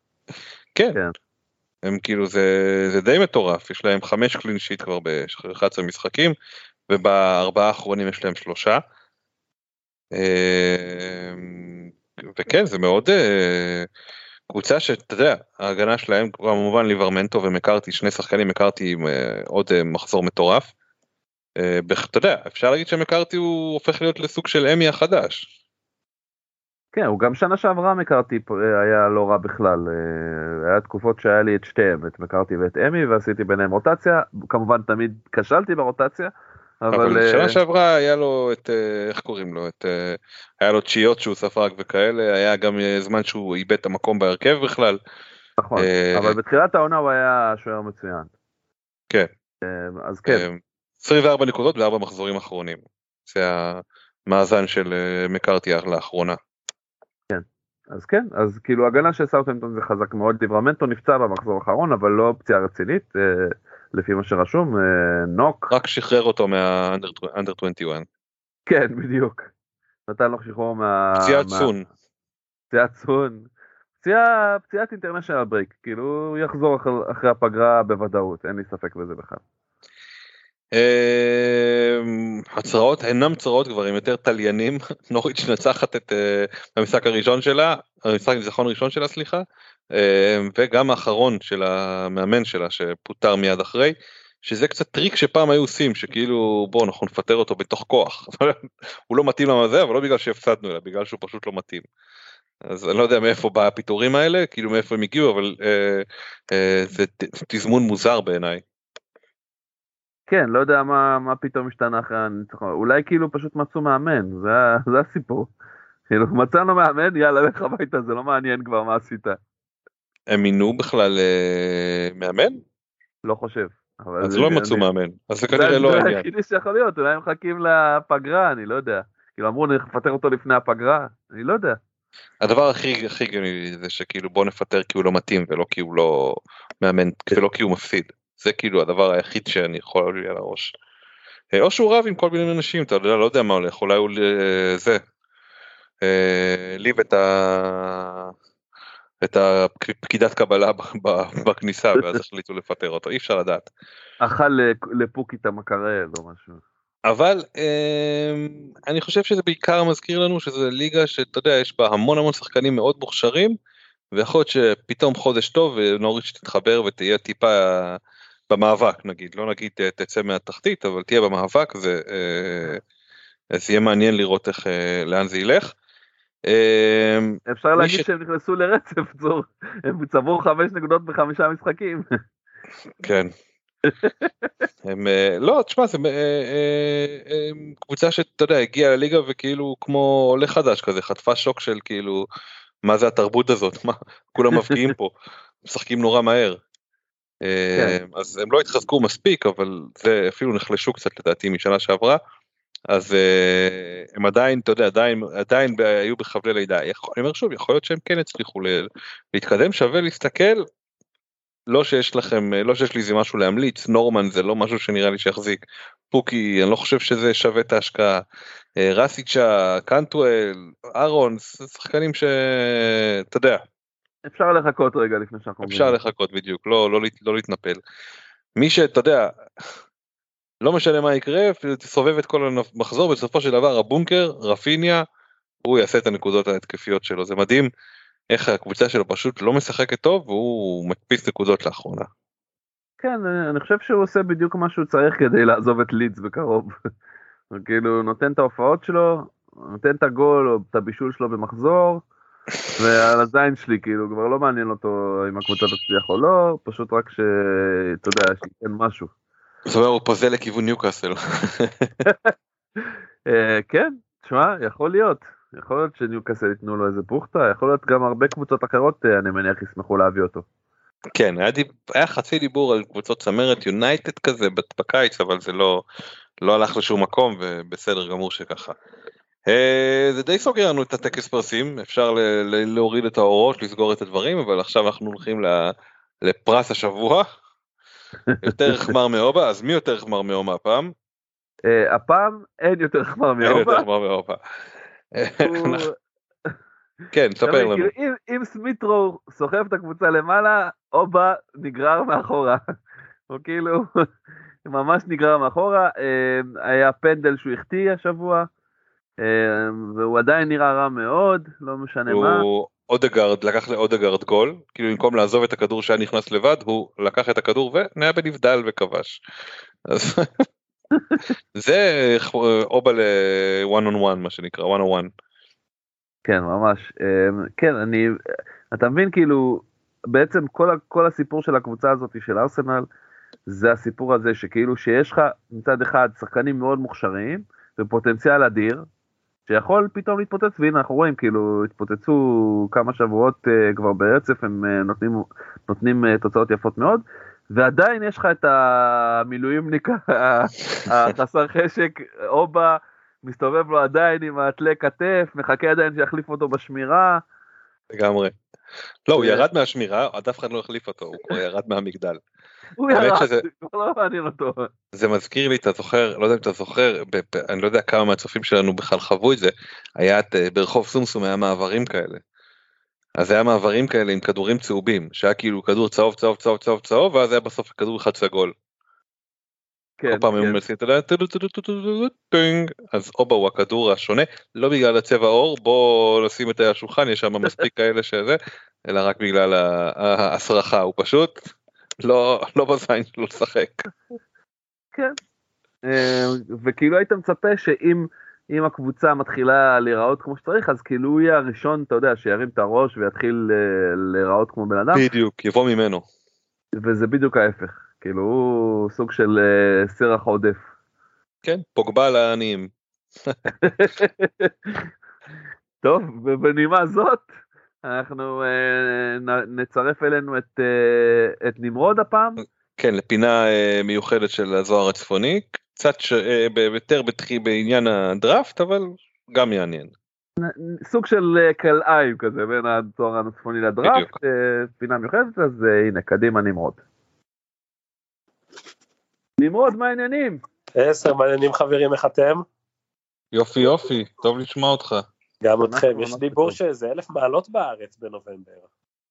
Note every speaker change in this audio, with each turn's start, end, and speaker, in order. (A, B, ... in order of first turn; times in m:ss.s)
0:01.8-0:06.3 A
0:06.9-0:08.8 A
0:10.1-0:13.9 A
0:14.5-0:20.7 A
0:21.6-0:25.5 A
0:26.9-0:37.6 B
0:36.9-0:45.0 A
0:45.6-0:48.3 B
0:45.8-0:46.4 A
0:49.6-0:50.5 B
0:50.3-0:56.4 A
0:57.3-1:05.7 B
1:05.7-1:08.0 A
1:08.7-1:09.5 B
1:10.1-1:11.7 B
1:11.2-1:11.9 A
1:12.7-1:13.5 B
1:14.0-1:19.4 B
1:20.7-1:41.8 A
1:42.6-1:48.6 A
1:50.3-1:55.5 B
1:56.1-1:59.4 B
2:00.3-2:02.6 A
2:03.2-2:04.9 B
2:04.2-2:06.2 A
2:05.5-2:11.8 B
2:12.4-2:20.7 A
2:21.5-2:25.0 A
2:26.0-2:28.3 A
2:29.2-2:33.7 A
2:34.2-2:36.6 B
2:37.0-2:43.6 A
2:44.1-2:48.0 A
2:48.5-2:52.8 A
2:53.5-2:55.7 A
2:56.5-2:58.0 A
2:57.5-3:02.1 B
3:03.0-3:03.3 A
3:03.9-3:04.3 B
3:04.8-3:12.2 A
3:12.8-3:15.1 A
3:15.6-3:16.6 A
3:17.4-3:22.2 A
3:22.9-3:30.6 A
3:31.7-3:38.2 A
3:38.8-3:43.6 A
3:44.2-3:46.0 B
3:45.6-3:47.8 A
3:48.6-3:49.3 A
3:50.6-3:55.0 A
3:55.6-3:57.7 A
3:58.3-4:02.1 A
4:03.0-4:06.7 B
4:07.5-4:12.0 B
4:12.8-4:19.1 B
4:19.7-4:21.9 A
4:22.0-4:22.3 B
4:22.8-4:30.4 B
4:31.1-4:35.8 A
4:36.4-4:38.7 A
4:39.5-4:45.7 A
4:46.2-4:47.2 A
4:48.4-4:48.9 B
4:48.4-4:50.9 A
4:51.7-4:53.8 B
4:53.4-4:54.4 A
4:55.2-4:55.8 A
4:55.4-4:55.9 B
4:57.1-4:57.9 A
4:57.4-5:02.6 B
5:03.3-5:03.8 B
5:04.6-5:08.5 B
5:09.2-5:12.4 B
5:12.1-5:19.2 A
5:19.9-5:20.4 A
5:21.6-5:25.1 A
5:26.2-5:28.2 B
5:28.7-5:32.8 B
5:33.5-5:38.8 B
5:39.5-5:57.2 B
5:57.9-5:58.3 A
5:59.1-6:02.2 A
5:59.1-5:59.4 B
6:02.8-6:04.7 B
6:02.9-6:03.4 A
6:04.9-6:12.2 A
6:13.2-6:18.5 A
6:20.0-6:20.6 B
6:20.1-6:31.5 A
6:32.0-6:33.9 A
6:35.8-6:45.1 B
6:44.9-6:46.0 A
6:46.8-6:50.6 B
6:51.4-6:52.7 A
6:53.6-6:54.8 B
6:55.8-6:57.3 B
6:57.8-7:02.4 B
7:02.8-7:09.9 A
7:10.4-7:16.8 B
7:13.8-7:14.1 A
7:19.4-7:20.4 B
7:20.8-7:22.4 C
7:23.3-7:25.0 A
7:25.4-7:28.6 C
7:25.6-7:26.6 B